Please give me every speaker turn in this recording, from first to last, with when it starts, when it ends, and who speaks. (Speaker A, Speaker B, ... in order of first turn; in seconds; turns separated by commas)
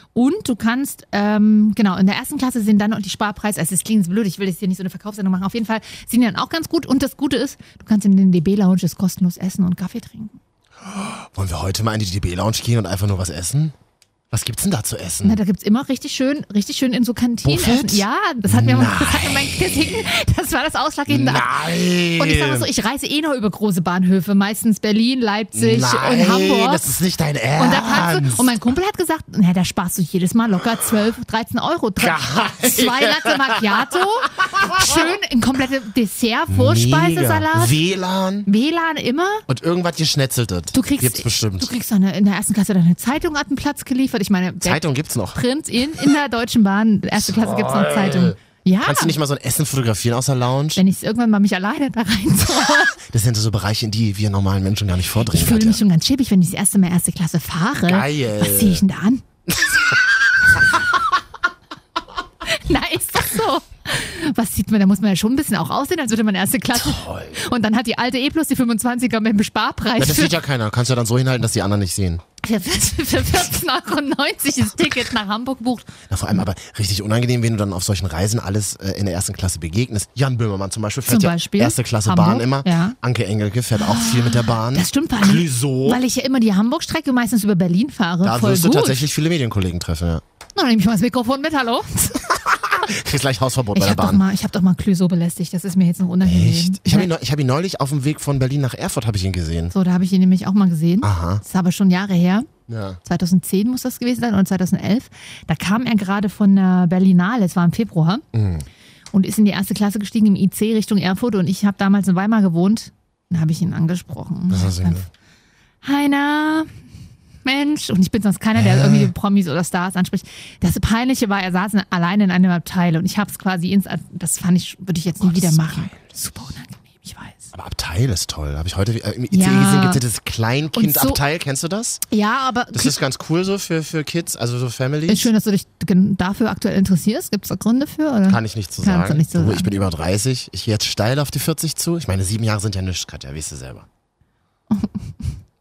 Speaker A: 0.1-10.4, Speaker B: 10.8-13.7, Speaker B: 14.3-15.4, Speaker A: 15.2-26.8, Speaker B: 17.4-20.1, Speaker B: 21.1-22.7, Speaker B: 25.5-28.6, Speaker A: 27.6-37.8, Speaker B: 32.0-35.1, Speaker B: 36.5-38.5, Speaker A: 38.5-39.5, Speaker B: 39.5-41.7, Speaker A: 40.7-44.8, Speaker B: 44.6-45.4, Speaker A: 45.3-49.1, Speaker B: 47.2-50.8, Speaker A: 50.8-53.0, Speaker B: 53.0-55.8, Speaker A: 55.2-59.2, Speaker B: 57.8-58.8, Speaker B: 59.5-60.8, Speaker A: 62.5-70.3, Speaker B: 66.7-67.5, Speaker B: 70.0-72.2, Speaker A: 72.4-75.9, Speaker B: 76.1-86.0, Speaker A: 81.1-83.0, Speaker A: 83.7-89.0, Speaker B: 88.2-90.2, Speaker A: 90.5-92.3, Speaker B: 92.2-94.2, Speaker A: 93.7-97.1, Speaker B: 96.2-99.7, Speaker A: 99.7-102.5, Speaker B: 101.0-101.4, Speaker B: 102.7-103.0, Speaker A: 103.0-108.2, Speaker B: 108.3-108.7, Speaker A: 109.1-115.0, Speaker B: 114.5-115.1, Speaker A: 115.8-116.7, Speaker A: 117.4-127.5, Speaker B: 118.5-119.1, Speaker B: 125.2-126.0, Speaker B: 127.5-132.0, Speaker A: 129.3-130.0, Speaker A: 130.7-131.2, Speaker A: 132.1-133.0, Speaker B: 132.7-135.3, Speaker A: 135.1-139.7, Speaker B: 138.3-143.9, Speaker A: 144.7-145.3